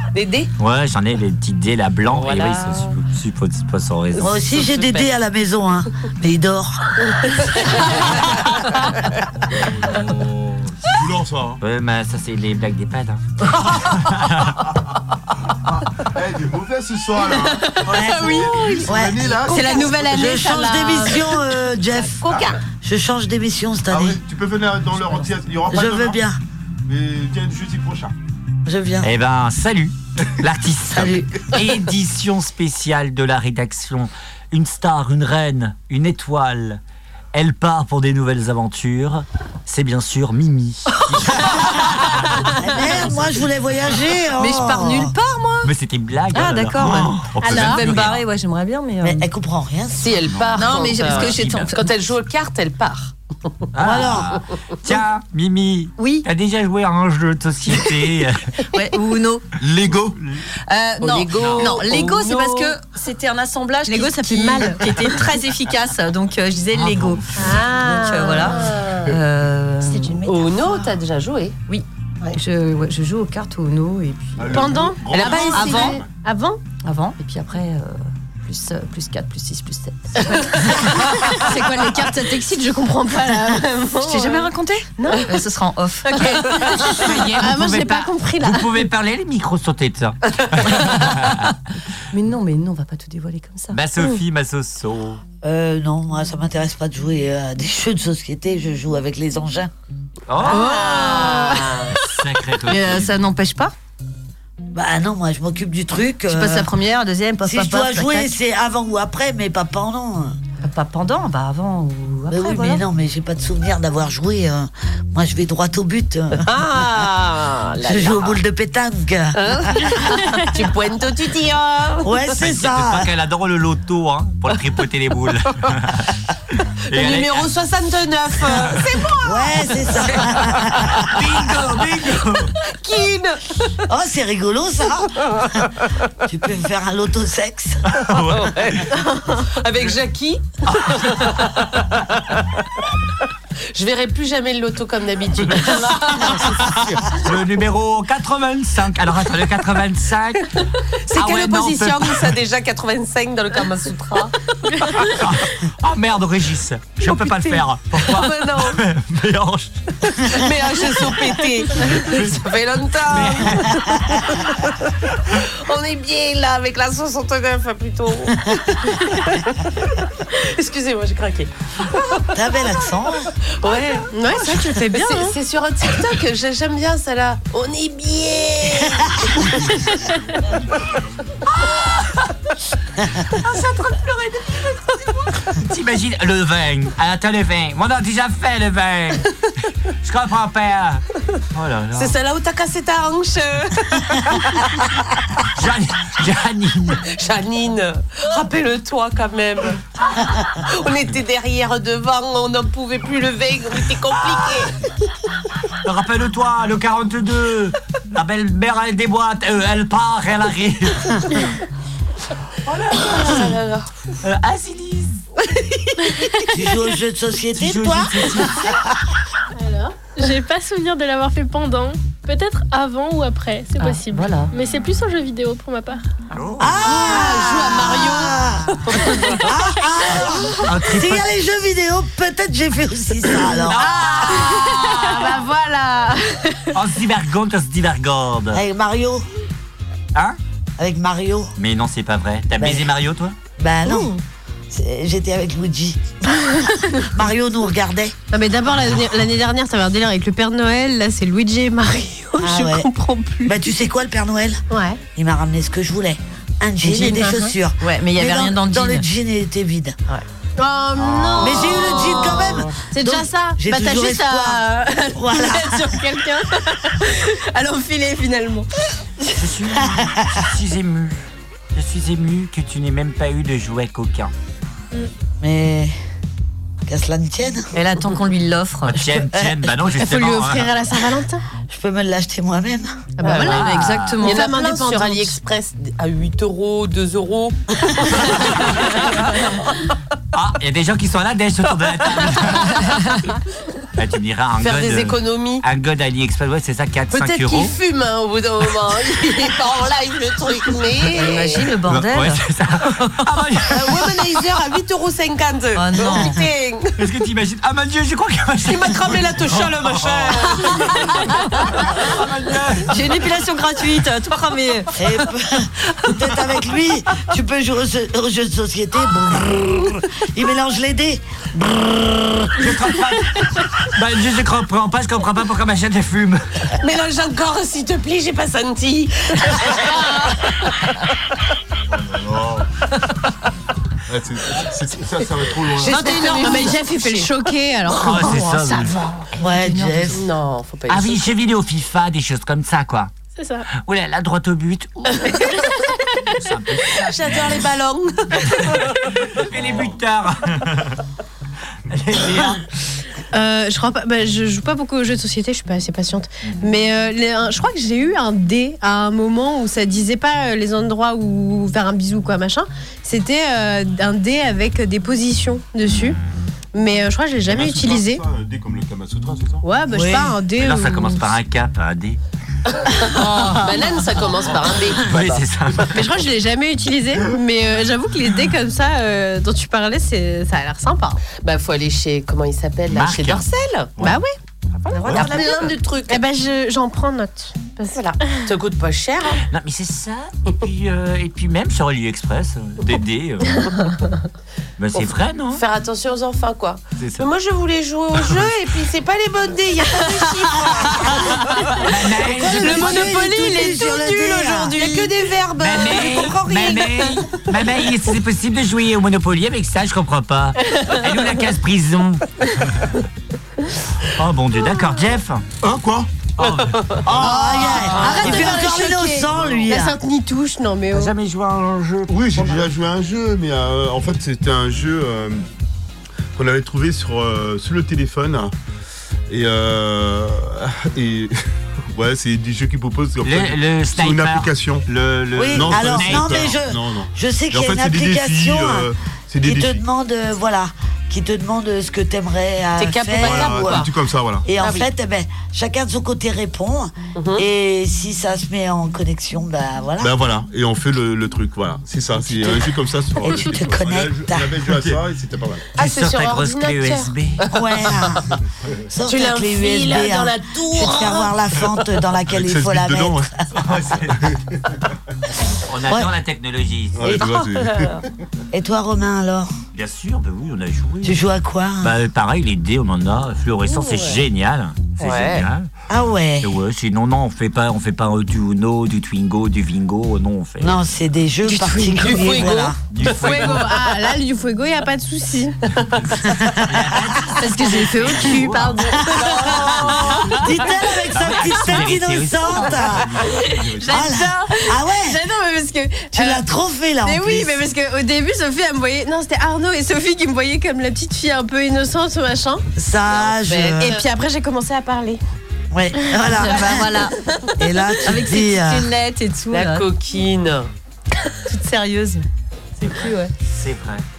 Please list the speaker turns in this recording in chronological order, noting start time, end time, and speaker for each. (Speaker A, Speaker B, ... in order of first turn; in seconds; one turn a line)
Speaker A: 0.1-0.5
Speaker B: 0.6-4.3
Speaker A: 2.1-2.9
Speaker C: 4.2-7.4
Speaker A: 4.3-5.1
Speaker A: 7.3-8.0
Speaker D: 9.5-11.6
Speaker B: 11.6-14.5
Speaker D: 15.8-20.2
Speaker E: 17.2-21.3
Speaker C: 17.9-24.2
Speaker A: 22.1-22.6
Speaker D: 23.9-26.2
Speaker C: 25.7-26.4
Speaker D: 26.9-28.1
Speaker C: 28.7-29.1
Speaker B: 29.0-36.8
Speaker C: 30.9-31.3
Speaker B: 37.3-42.4
Speaker C: 42.5-45.1
Speaker F: 44.4-45.7
Speaker B: 45.6-48.2
Speaker F: 46.3-49.2
Speaker E: 47.5-47.8
Speaker C: 49.0-50.3
Speaker A: 50.0-53.1
Speaker B: 50.3-51.8
Speaker F: 50.5-51.9
Speaker B: 53.7-58.5
Speaker C: 53.8-54.4
Speaker F: 56.0-56.3
Speaker F: 58.7-59.5
Speaker D: 59.6-60.2
Speaker F: 60.7-70.3
Speaker A: 61.0-62.8
Speaker B: 61.4-61.8
Speaker E: 63.9-65.4
Speaker B: 66.7-67.6
Speaker E: 67.4-69.0
Speaker A: 67.9-68.9
Speaker E: 69.8-70.9
Speaker A: 70.2-71.6
Speaker F: 71.7-76.0
Speaker D: 74.4-76.1
Speaker E: 74.5-76.6
Speaker F: 76.8-81.3
Speaker E: 80.5-85.4
Speaker F: 84.0-86.5
Speaker E: 86.1-88.9
Speaker B: 86.5-91.6
Speaker F: 92.1-93.8
Speaker B: 93.7-95.2
Speaker C: 95.4-99.7
Speaker B: 100.3-103.2
Speaker E: 100.5-101.9
Speaker A: 101.0-101.7
Speaker F: 102.7-103.7
Speaker C: 104.7-106.7
Speaker F: 106.3-108.3
Speaker C: 107.4-110.4
Speaker F: 110.6-112.8
Speaker C: 112.3-116.5
Speaker A: 116.4-118.4
Speaker C: 117.8-120.1
Speaker A: 119.3-122.2
Speaker C: 122.0-123.1
Speaker B: 122.4-126.2
Speaker B: 126.9-127.5
Speaker A: 126.9-129.6
Speaker C: 129.2-131.1
Speaker B: 130.2-132.5
Speaker A: 132.7-133.6
Speaker C: 133.9-135.7
Speaker C: 136.2-137.8
Speaker B: 137.9-138.8
Speaker A: 138.2-142.4
Speaker E: 139.0-139.3
Speaker A: 143.7-146.7
Speaker B: 146.0-152.3
Speaker A: 151.1-154.3
Speaker B: 154.9-160.2
Speaker A: 158.0-158.8
Speaker A: 160.2-164.7
Speaker B: 161.9-162.3
Speaker B: 163.1-163.8
Speaker A: 165.3-169.5
Speaker A: 170.3-172.1
Speaker C: 172.3-173.3
Speaker A: 173.6-179.9
Speaker E: 174.1-175.3
Speaker B: 181.5-182.3
Speaker B: 183.4-189.3
Speaker B: 189.9-192.1
Speaker A: 192.0-194.9
Speaker B: 195.5-197.1
Speaker A: 197.1-199.8
Speaker A: 200.5-204.8
Speaker B: 204.1-204.7
Speaker B: 205.8-211.3
Speaker B: 212.7-213.5
Speaker A: 213.1-213.9
Speaker B: 214.2-215.2
Speaker C: 216.5-218.9
Speaker B: 217.6-218.8
Speaker E: 219.6-220.0
Speaker G: 220.1-226.0
Speaker B: 223.8-224.5
Speaker B: 226.3-227.0
Speaker C: 226.6-234.0
Speaker A: 226.8-229.2
Speaker E: 227.1-228.2
Speaker E: 229.1-229.4
Speaker B: 230.1-231.3
Speaker B: 233.6-235.4
Speaker E: 233.8-236.7
Speaker B: 236.7-238.6
Speaker C: 238.5-239.2
Speaker C: 240.8-241.5
Speaker B: 241.6-243.4
Speaker C: 242.6-242.9
Speaker C: 243.6-244.2
Speaker E: 243.8-244.1
Speaker C: 244.7-248.2
Speaker E: 248.3-253.7
Speaker C: 252.4-252.9
Speaker C: 253.5-254.6
Speaker E: 254.7-255.0
Speaker C: 255.2-260.0
Speaker E: 256.8-257.6
Speaker F: 257.8-259.0
Speaker E: 260.6-268.7
Speaker B: 261.1-261.5
Speaker C: 261.4-266.0
Speaker B: 269.3-274.3
Speaker C: 269.9-270.4
Speaker C: 275.4-275.9
Speaker C: 276.9-277.7
Speaker F: 277.7-279.3
Speaker B: 278.9-280.7
Speaker C: 279.3-279.7
Speaker E: 279.9-281.4
Speaker C: 281.7-283.0
Speaker E: 283.2-283.7
Speaker A: 283.2-283.7
Speaker F: 283.3-284.5
Speaker B: 283.4-284.3
Speaker E: 284.2-285.3
Speaker A: 284.2-289.5
Speaker B: 288.1-289.3
Speaker B: 290.3-293.1
Speaker B: 293.9-297.7
Speaker A: 294.6-295.6
Speaker A: 297.1-301.7
Speaker F: 301.1-302.4
Speaker B: 301.9-304.1
Speaker A: 303.7-306.9
Speaker F: 305.8-306.4
Speaker B: 307.0-312.9
Speaker A: 308.6-310.9
Speaker F: 312.9-315.0
Speaker C: 314.9-322.5
Speaker B: 322.6-326.4
Speaker A: 326.8-330.7
Speaker D: 331.9-332.7
Speaker D: 334.1-336.0
Speaker A: 335.8-337.3
Speaker E: 335.8-339.2
Speaker F: 336.2-336.7
Speaker B: 337.9-338.9
Speaker C: 339.4-340.3
Speaker A: 340.1-341.3
Speaker B: 340.9-343.1
Speaker G: 343.4-343.7
Speaker B: 343.8-347.7
Speaker A: 347.2-347.8
Speaker E: 347.2-348.2
Speaker B: 348.4-350.9
Speaker B: 351.9-352.6
Speaker E: 353.3-366.2
Speaker E: 366.7-368.2
Speaker D: 367.5-369.7
Speaker E: 369.6-371.3
Speaker C: 369.9-370.4
Speaker B: 370.6-372.2
Speaker A: 373.0-375.4
Speaker E: 373.1-373.8
Speaker B: 374.9-376.0
Speaker E: 375.9-381.2
Speaker A: 381.4-384.0
Speaker B: 382.9-383.5
Speaker E: 384.0-384.3
Speaker A: 384.8-386.2
Speaker E: 384.9-385.5
Speaker B: 385.1-385.4
Speaker E: 386.1-388.0
Speaker A: 387.9-389.4
Speaker B: 389.5-393.7
Speaker B: 394.8-395.6
Speaker A: 394.9-401.7
Speaker B: 397.0-397.3
Speaker E: 399.9-400.2
Speaker B: 401.8-403.1
Speaker C: 402.2-405.0
Speaker E: 402.2-406.9
Speaker A: 404.8-406.5
Speaker B: 405.6-412.3
Speaker C: 406.6-406.9
Speaker B: 414.0-415.4
Speaker D: 415.6-416.1
Speaker B: 416.4-418.6
Speaker C: 417.1-420.0
Speaker D: 417.1-417.6
Speaker E: 417.2-421.1
Speaker D: 418.1-419.7
Speaker B: 420.9-422.7
Speaker D: 422.1-425.4
Speaker D: 426.4-428.5
Speaker D: 429.3-431.4
Speaker D: 431.9-434.9
Speaker B: 433.2-436.5
Speaker C: 435.4-438.9
Speaker D: 435.4-439.8
Speaker C: 439.4-443.9
Speaker A: 442.8-443.9
Speaker D: 443.1-444.5
Speaker C: 444.4-450.1
Speaker A: 444.6-444.9
Speaker A: 447.1-447.4
Speaker D: 450.0-455.7
Speaker C: 452.1-454.6
Speaker B: 454.7-455.0
Speaker A: 455.7-458.2
Speaker B: 455.8-457.4
Speaker C: 457.5-458.3
Speaker C: 458.9-463.4
Speaker A: 459.1-461.3
Speaker D: 462.3-464.8
Speaker B: 463.5-464.3
Speaker B: 465.6-467.1
Speaker D: 466.9-468.1
Speaker A: 467.1-468.0
Speaker C: 468.5-469.5
Speaker B: 469.7-471.2
Speaker C: 471.0-471.9
Speaker B: 471.8-475.7
Speaker A: 473.7-474.2
Speaker A: 475.0-475.5
Speaker C: 475.9-476.5
Speaker B: 476.4-480.8
Speaker C: 480.6-482.8
Speaker A: 481.6-482.8
Speaker E: 481.7-482.4
Speaker B: 482.9-483.8
Speaker E: 483.1-485.6
Speaker C: 486.3-486.9
Speaker B: 486.5-488.8
Speaker F: 487.4-488.9
Speaker E: 487.5-489.8
Speaker C: 488.9-493.2
Speaker A: 489.0-489.8
Speaker B: 489.9-490.4
Speaker B: 491.1-493.4
Speaker E: 493.3-496.4
Speaker D: 493.3-494.0
Speaker C: 493.8-495.2
Speaker C: 496.1-497.6
Speaker E: 497.0-502.6
Speaker C: 502.8-504.0
Speaker A: 503.2-504.0
Speaker E: 503.8-505.2
Speaker C: 505.7-506.9
Speaker E: 506.4-506.7
Speaker F: 506.4-507.2
Speaker C: 507.6-508.9
Speaker F: 508.1-509.9
Speaker A: 509.5-510.7
Speaker F: 511.5-512.2
Speaker B: 512.8-514.1
Speaker F: 512.9-513.3